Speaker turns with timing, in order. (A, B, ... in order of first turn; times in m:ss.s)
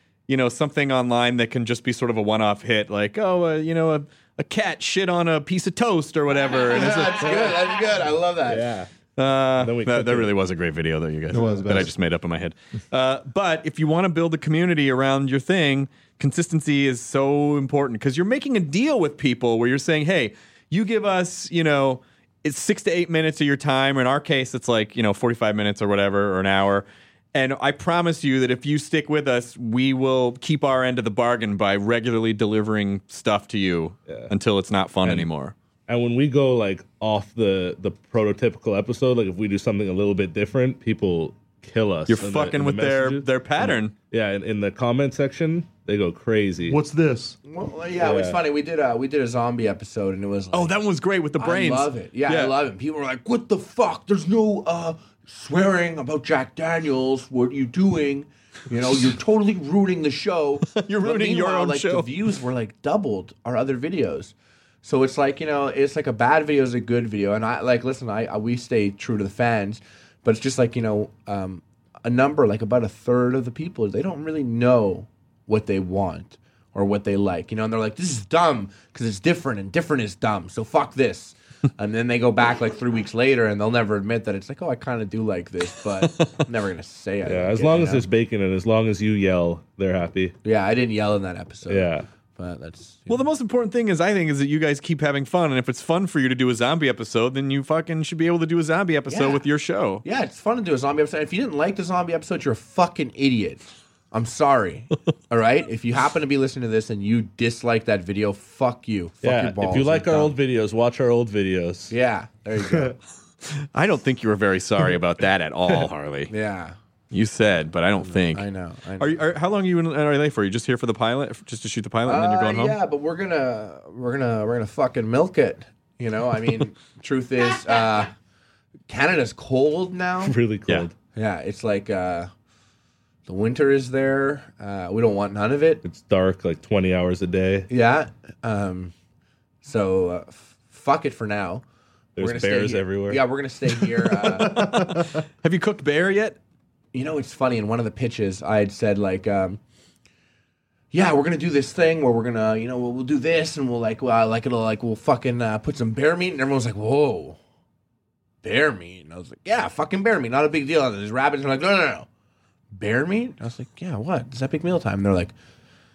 0:00.3-0:07.7 A
0:06.5-0:08.7 B
0:08.5-0:08.9 C
0:09.2-0:35.5 A
0:09.6-0:10.3 C
0:11.3-0:11.9 D
0:34.1-0:34.3 C
0:35.9-0:46.8 C
0:42.1-0:43.9 A
0:46.7-0:47.4 D
0:47.4-0:50.7 B
0:48.0-0:48.4 C
0:50.5-0:52.5 A
0:51.4-1:28.1 B
1:00.8-1:02.1 A
1:27.2-1:30.4 C
1:30.4-1:33.3 B
1:31.7-1:32.1 C
1:33.1-1:40.0 A
1:39.1-1:39.4 B
1:40.0-1:50.3 B
1:49.2-1:51.9 C
1:51.9-1:53.0 B
1:53.6-1:56.3 A
1:56.3-1:56.8 B
1:57.1-1:58.5 A
1:58.0-1:59.2 B
1:59.0-2:02.8 A
2:02.0-2:08.1 B
2:08.9-2:10.4 B
2:10.2-2:10.9 C
2:11.2-2:12.3 B
2:13.3-2:15.8 B
2:15.8-2:17.7 C
2:17.7-2:18.9 B
2:19.6-2:21.6 B
2:22.2-2:23.2 C
2:22.2-2:24.8 B
2:24.4-2:26.4 A
2:24.4-2:25.1 D
2:26.9-2:29.6 B
2:30.9-2:37.4 B
2:38.4-2:42.1 B
2:42.7-2:45.3 B